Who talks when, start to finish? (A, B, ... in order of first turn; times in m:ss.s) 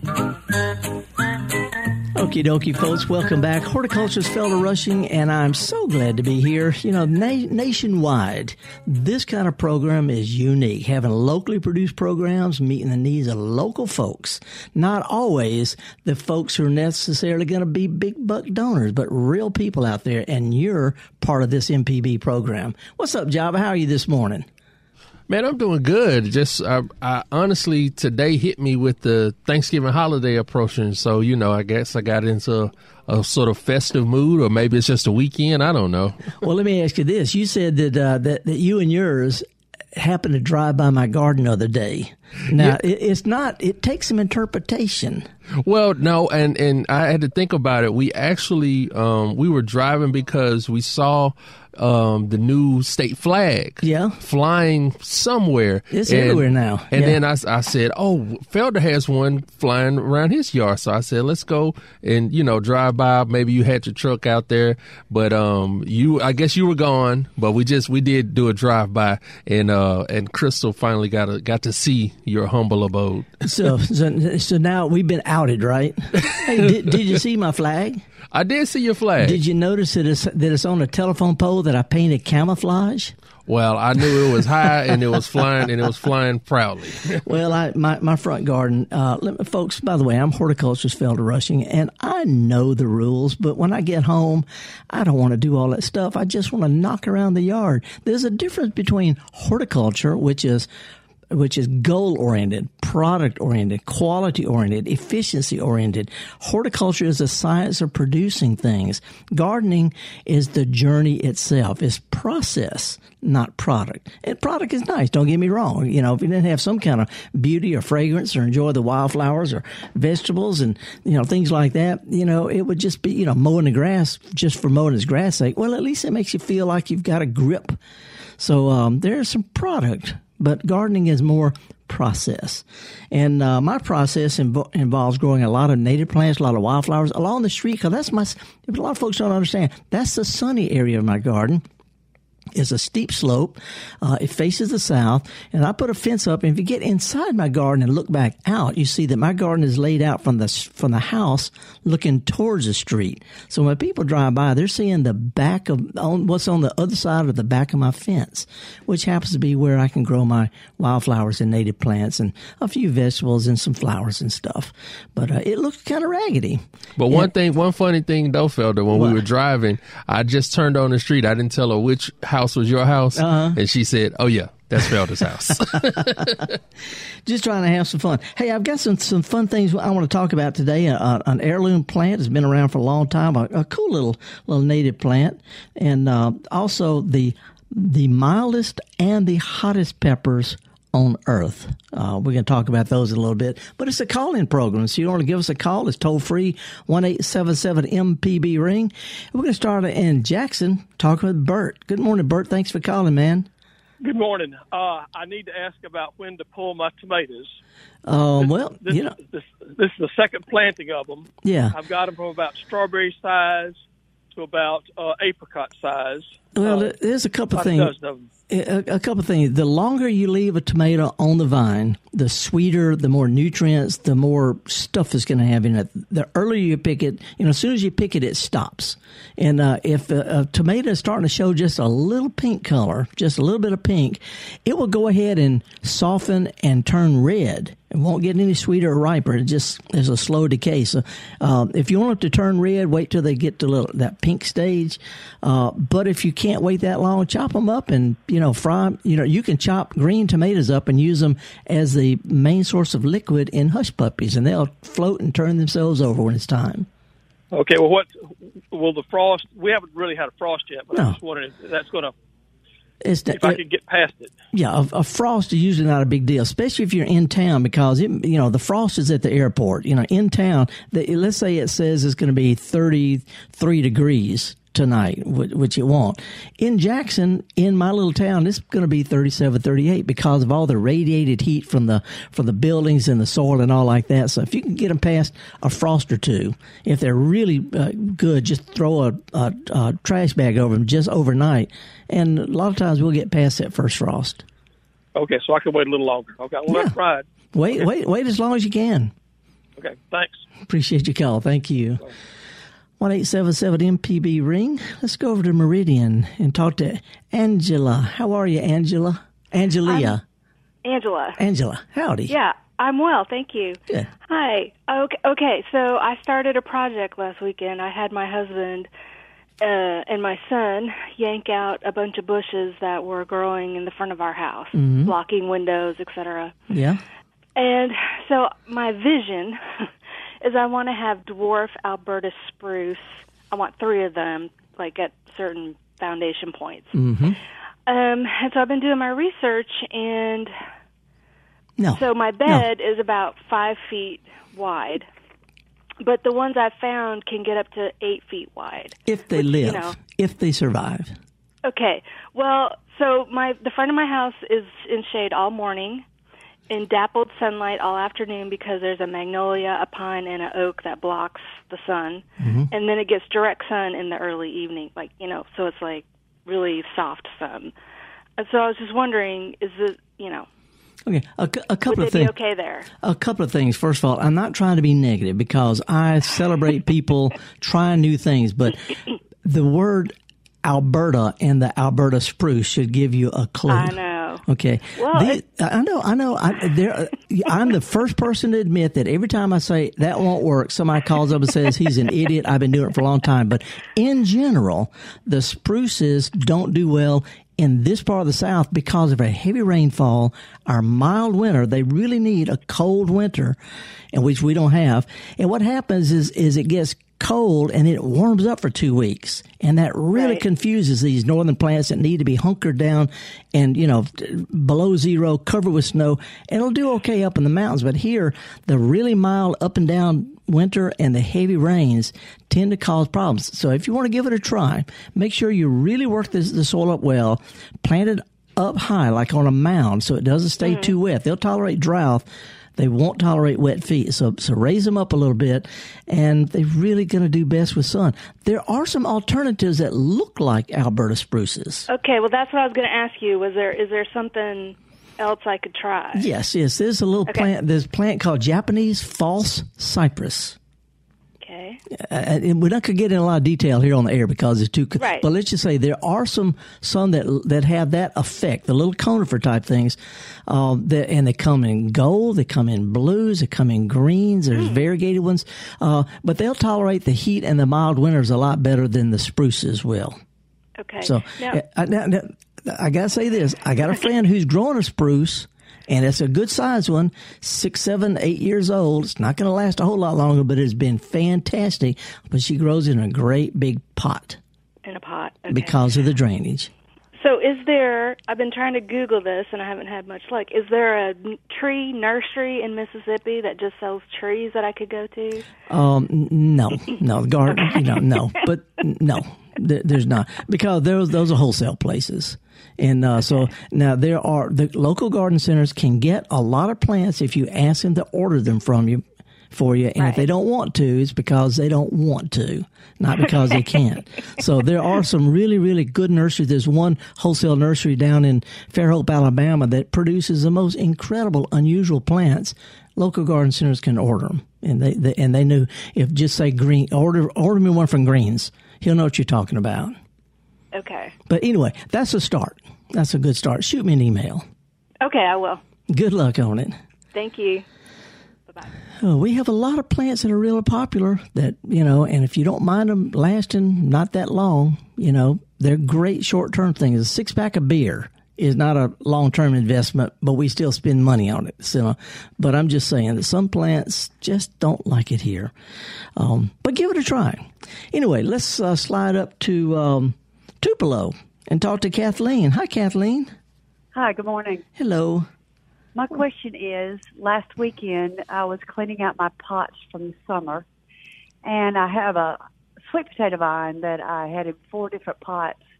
0:02.1-0:24.5 A
0:25.3-0:36.3 B
0:36.4-0:39.4 A
0:40.0-0:45.3 A
0:45.6-1:13.5 B
0:53.8-0:54.2 A
0:55.9-0:57.2 A
1:13.4-1:18.0 A
1:18.3-1:19.4 B
1:19.2-1:23.2 A
1:23.5-1:27.2 B
1:27.2-1:40.7 A
1:41.3-2:07.8 A
2:08.4-2:21.6 A
2:22.5-2:47.3 A
2:47.0-2:56.5 B
2:48.9-2:49.2 A
2:53.2-2:53.6 A
2:57.3-3:23.5 A
3:24.0-3:27.6 C
3:28.1-3:29.2 A
3:28.4-3:33.8 C
3:31.4-3:31.8 A
3:34.3-3:36.9 C
3:36.6-3:37.9 A
3:37.5-3:38.3 C
3:38.5-4:16.9 A
4:17.5-4:22.1 C
4:23.0-4:23.6 A
4:23.3-4:24.4 C
4:24.5-4:54.4 A
4:55.2-4:57.9 C
4:56.7-4:57.0 A
4:57.5-4:59.1 A
4:59.8-5:00.4 C
5:00.7-5:02.0 A
5:03.0-5:10.2 A
5:09.8-5:10.2 D
5:10.8-5:11.4 D
5:11.4-5:12.4 A
5:12.3-5:18.9 D
5:19.6-5:26.5 D
5:24.7-5:25.1 A
5:26.7-5:27.0 A
5:27.6-5:29.9 D
5:30.4-5:36.9 D
5:36.9-5:37.4 A
5:37.9-5:40.5 D
5:41.8-5:42.7 A
5:41.9-5:45.1 D
5:46.0-5:50.0 D
5:49.1-5:51.2 A
5:51.6-5:56.0 D
5:56.7-6:07.7 D
6:02.4-6:02.7 A
6:08.4-6:10.5 D
6:11.1-6:12.3 A
6:11.9-6:12.9 D
6:13.0-6:18.9 A
6:19.4-6:20.1 A
6:20.6-6:43.6 A
6:23.7-6:24.4 D
6:25.0-6:25.4 D
6:44.1-7:12.3 A
6:50.2-6:50.4 D
7:10.6-7:10.9 D
7:12.8-7:21.9 A
7:21.9-7:26.3 D
7:26.1-7:30.6 A
7:31.4-7:31.8 D
7:31.9-7:50.2 A
7:35.0-7:35.3 D
7:50.8-7:51.6 D
7:51.0-8:04.4 A
8:04.8-8:05.8 D
8:05.5-8:06.7 A
8:07.2-8:15.5 D
8:15.7-8:50.0 A
8:50.7-8:51.2 D
8:51.3-8:54.4 A
8:55.0-8:55.6 D
8:55.9-8:56.8 A
8:57.1-8:57.6 D
8:58.5-8:58.7 D
8:59.0-9:15.5 A
9:16.2-9:23.3 A
9:23.9-9:24.6 E
9:24.8-9:25.3 A
9:26.0-9:30.7 E
9:31.4-9:35.6 E